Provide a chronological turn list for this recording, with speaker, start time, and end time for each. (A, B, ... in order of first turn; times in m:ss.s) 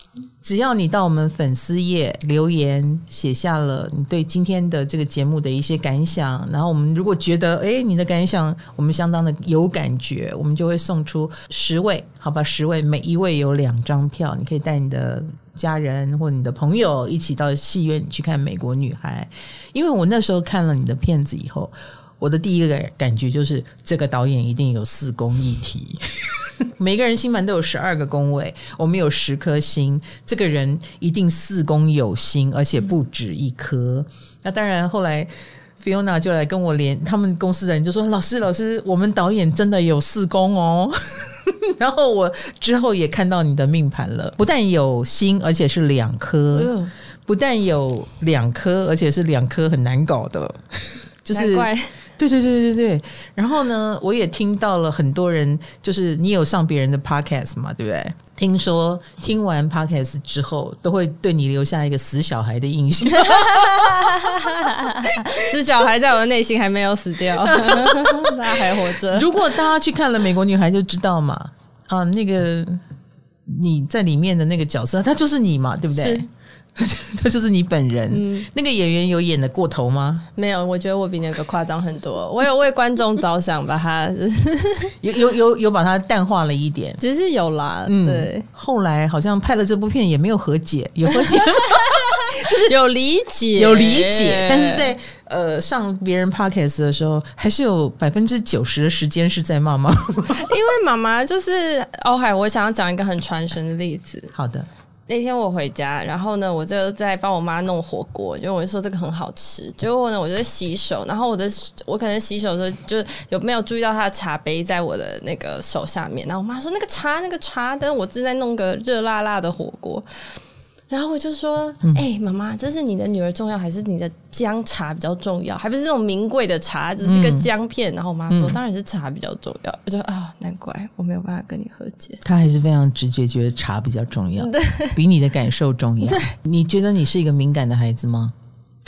0:00.4-0:46.7 A
0:46.5-0:46.9 B
0:47.3-1:04.1 A
0:51.3-0:51.9 B
1:03.2-1:09.4 B
1:07.5-1:12.8 A
1:13.5-1:20.3 A
1:15.9-1:16.3 B
1:18.1-1:18.5 B
1:20.4-1:25.0 B
1:25.0-1:27.0 A
1:27.0-1:28.5 B
1:27.9-1:32.7 A
1:31.1-1:34.9 B
1:33.6-1:40.5 A
1:40.4-1:44.3 B
1:44.3-1:44.7 A
1:45.1-2:12.2 B
2:07.0-2:07.5 A
2:08.3-2:08.6 A
2:12.2-2:18.3 A
2:14.4-2:15.0 B
2:16.0-2:16.3 B